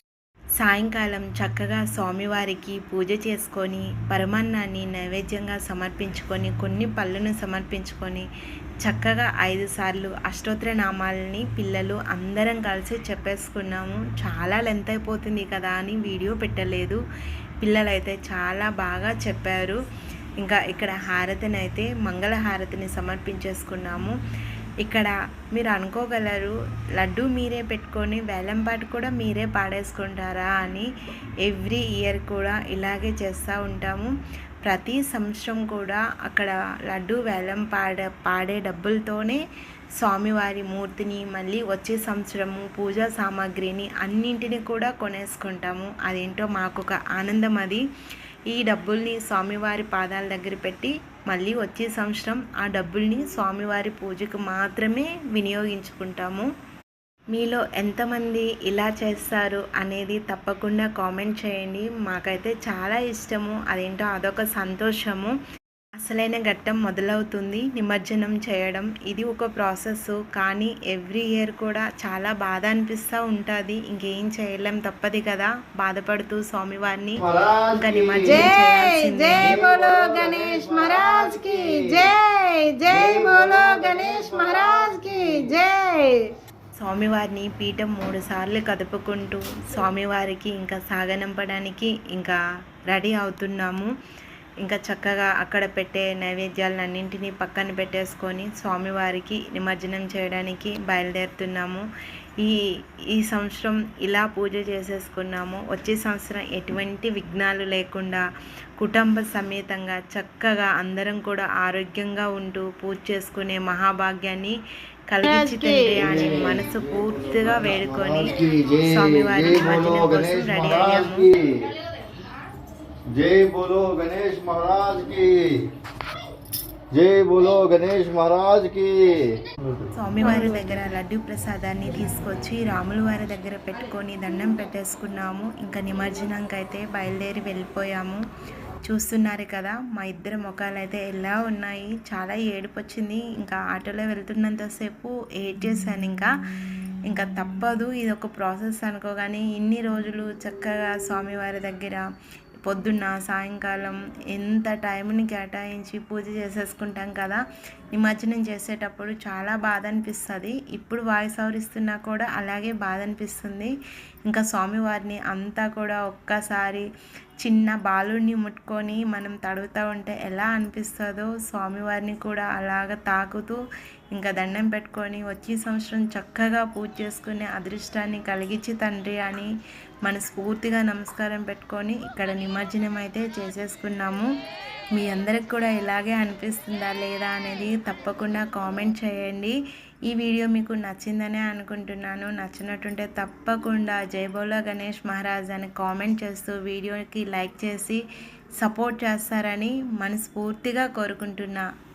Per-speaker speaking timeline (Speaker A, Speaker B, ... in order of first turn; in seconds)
Speaker A: 0.6-8.3, 8.8-17.0, 17.6-19.8, 20.4-24.1, 24.8-30.9, 31.4-34.1, 34.6-39.4, 40.0-47.8, 48.5-56.5, 57.3-65.3, 66.0-79.6, 86.8-92.4, 92.9-93.9, 94.6-101.8, 103.1-108.2, 108.8-114.6, 115.1-121.3, 129.9-138.2, 138.8-152.0, 152.6-157.4, 157.9-163.7, 164.2-166.8, 167.4-173.6, 174.1-179.5, 180.0-184.3, 184.9-189.5, 190.1-198.0, 198.6-201.6
Speaker B: 77.2-78.5, 79.3-82.1, 82.8-85.5, 116.0-121.6, 123.2-125.6, 126.9-129.8
Speaker C: 78.2-86.2, 115.2-116.1, 130.2-130.9